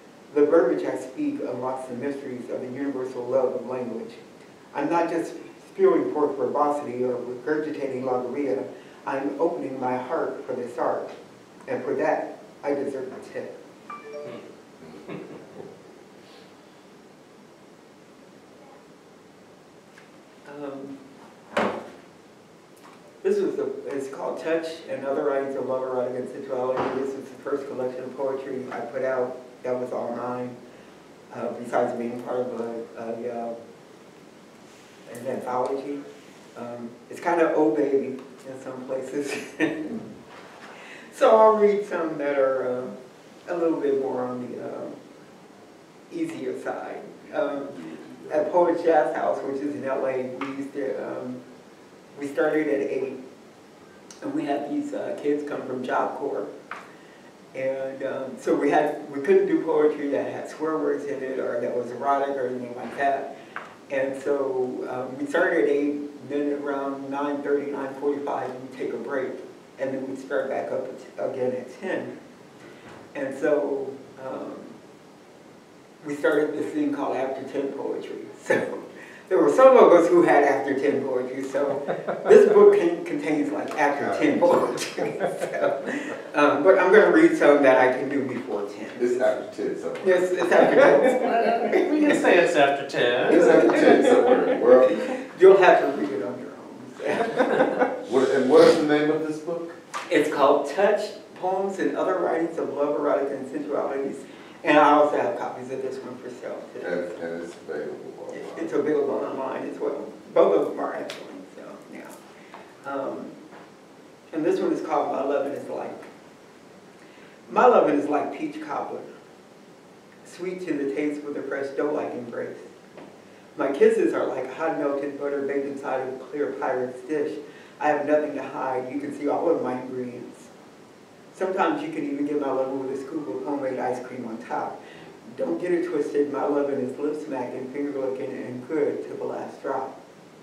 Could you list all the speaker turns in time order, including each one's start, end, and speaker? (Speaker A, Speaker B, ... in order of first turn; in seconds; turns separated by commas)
Speaker A: 0.3-11.1, Speaker A: 11.7-13.5, Speaker B: 14.8-15.2, Speaker A: 20.4-21.0, Speaker A: 23.2-30.6, Speaker A: 31.3-33.5, Speaker A: 35.0-36.0, Speaker A: 36.5-40.1, Speaker A: 41.1-45.0, Speaker A: 46.1-51.4, Speaker B: 47.7-48.3, Speaker A: 52.1-53.2, Speaker A: 54.2-56.5, Speaker A: 57.5-63.3, Speaker A: 63.9-72.2, Speaker A: 73.1-74.8, Speaker A: 76.0-89.3, Speaker B: 84.0-85.0, Speaker B: 89.0-90.9, Speaker A: 90.0-92.2, Speaker C: 91.0-93.4, Speaker B: 93.2-95.0, Speaker A: 93.3-94.1, Speaker A: 94.9-97.7, Speaker B: 98.0-99.8, Speaker A: 100.1-107.1, Speaker B: 106.8-108.8, Speaker A: 108.3-112.2, Speaker A: 112.8-113.3, Speaker A: 114.3-116.1, Speaker A: 117.5-119.1, Speaker A: 120.2-122.7, Speaker A: 123.5-130.5, Speaker A: 131.3-139.9